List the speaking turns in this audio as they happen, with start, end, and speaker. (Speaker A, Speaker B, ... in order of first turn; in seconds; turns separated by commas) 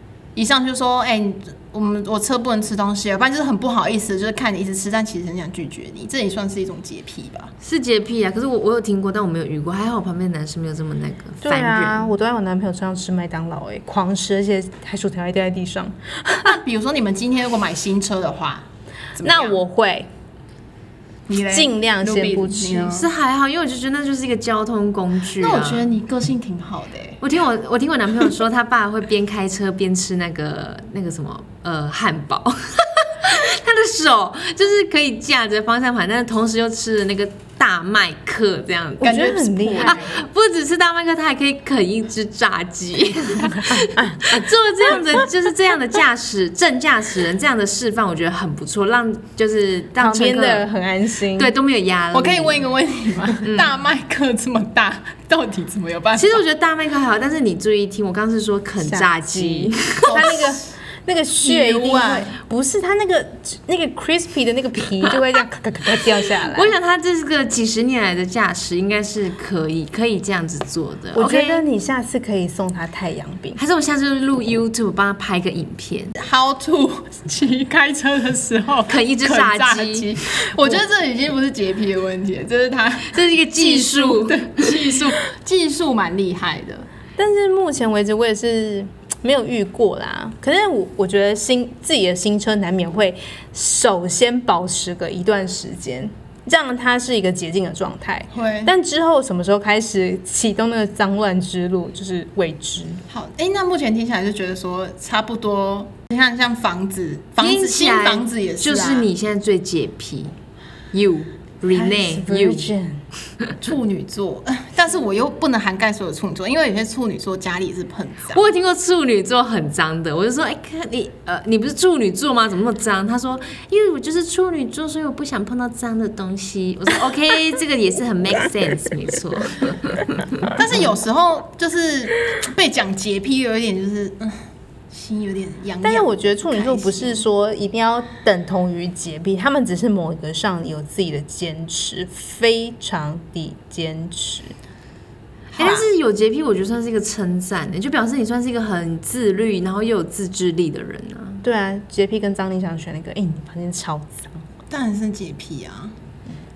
Speaker A: 0.3-7.5, Speaker B: 7.6-12.1, Speaker C: 11.4-16.6, Speaker A: 16.4-19.6, Speaker C: 19.2-20.1, Speaker A: 21.3-23.1, Speaker C: 21.5-22.9, Speaker B: 22.9-25.9, Speaker A: 25.4-27.2, Speaker B: 27.2-39.2, Speaker A: 39.0-40.1, Speaker C: 39.0-40.2, Speaker B: 39.8-50.7, Speaker C: 43.5-44.2, Speaker C: 50.0-51.5, Speaker B: 51.3-52.6, Speaker A: 52.1-56.4, Speaker B: 53.4-53.8, Speaker B: 56.2-60.4, Speaker C: 58.8-66.8, Speaker A: 60.0-60.6, Speaker A: 61.4-62.4, Speaker B: 66.3-71.6, Speaker C: 71.2-73.6, Speaker B: 73.6-76.1, Speaker A: 76.2-86.9, Speaker B: 78.9-80.1, Speaker B: 83.1-84.7, Speaker C: 87.2-103.0, Speaker A: 98.3-98.7, Speaker A: 103.1-109.1, Speaker B: 107.4-110.3, Speaker B: 110.9-112.7, Speaker C: 111.8-113.0, Speaker A: 113.6-118.5, Speaker B: 118.3-130.5, Speaker A: 130.6-134.4, Speaker A: 134.9-137.2, Speaker C: 135.8-144.6, Speaker C: 145.6-145.9, Speaker B: 145.6-151.4, Speaker C: 151.4-154.4, Speaker A: 154.7-155.9